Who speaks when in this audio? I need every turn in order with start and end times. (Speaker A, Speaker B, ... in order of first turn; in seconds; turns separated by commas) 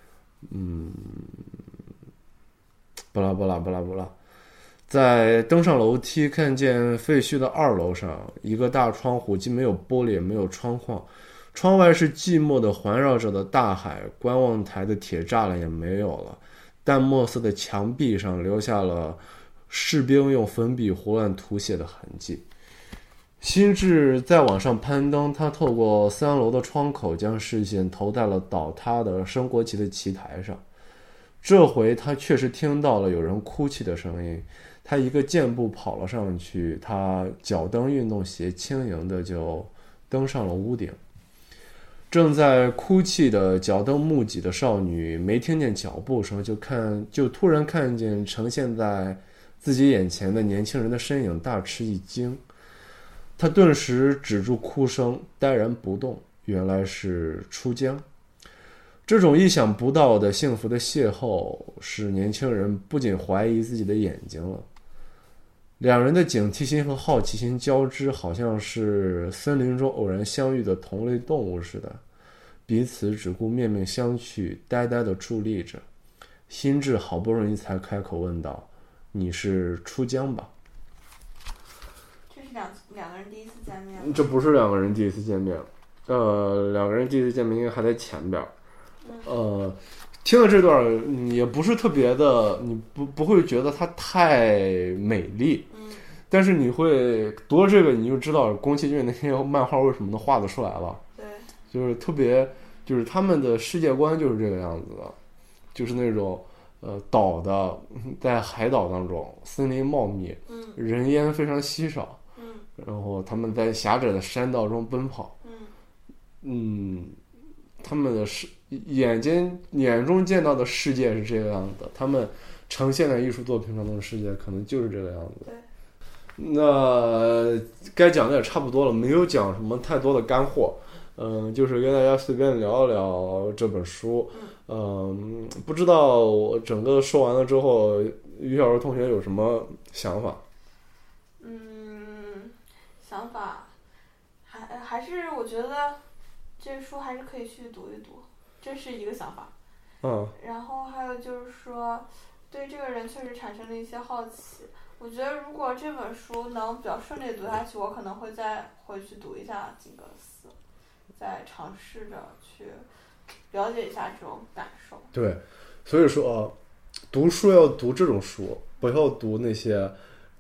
Speaker A: 0.4-1.5, Speaker A: 3.1-4.1, Speaker A: 4.9-22.4, Speaker A: 23.4-30.6, Speaker A: 31.4-41.0, Speaker A: 42.1-52.4, Speaker A: 53.4-58.0, Speaker A: 59.1-64.7, Speaker A: 65.8-72.0, Speaker A: 72.7-75.8, Speaker A: 76.5-80.5, Speaker B: 82.3-84.3, Speaker A: 84.0-88.5, Speaker B: 89.0-89.3, Speaker A: 89.2-95.7, Speaker B: 95.7-96.0, Speaker A: 96.3-101.0, Speaker B: 101.2-101.5, Speaker A: 101.7-105.2, Speaker A: 105.7-112.2, Speaker B: 110.5-110.8, Speaker B: 112.3-112.7, Speaker A: 112.8-115.3, Speaker B: 115.4-115.8, Speaker A: 116.4-117.2, Speaker A: 117.8-125.5, Speaker A: 126.4-140.4, Speaker B: 141.4-143.8, Speaker B: 144.4-146.0, Speaker B: 146.6-149.5, Speaker A: 150.0-150.4, Speaker B: 150.4-160.6, Speaker B: 161.2-162.9, Speaker B: 163.5-165.1, Speaker A: 165.1-166.6, Speaker A: 167.1-170.0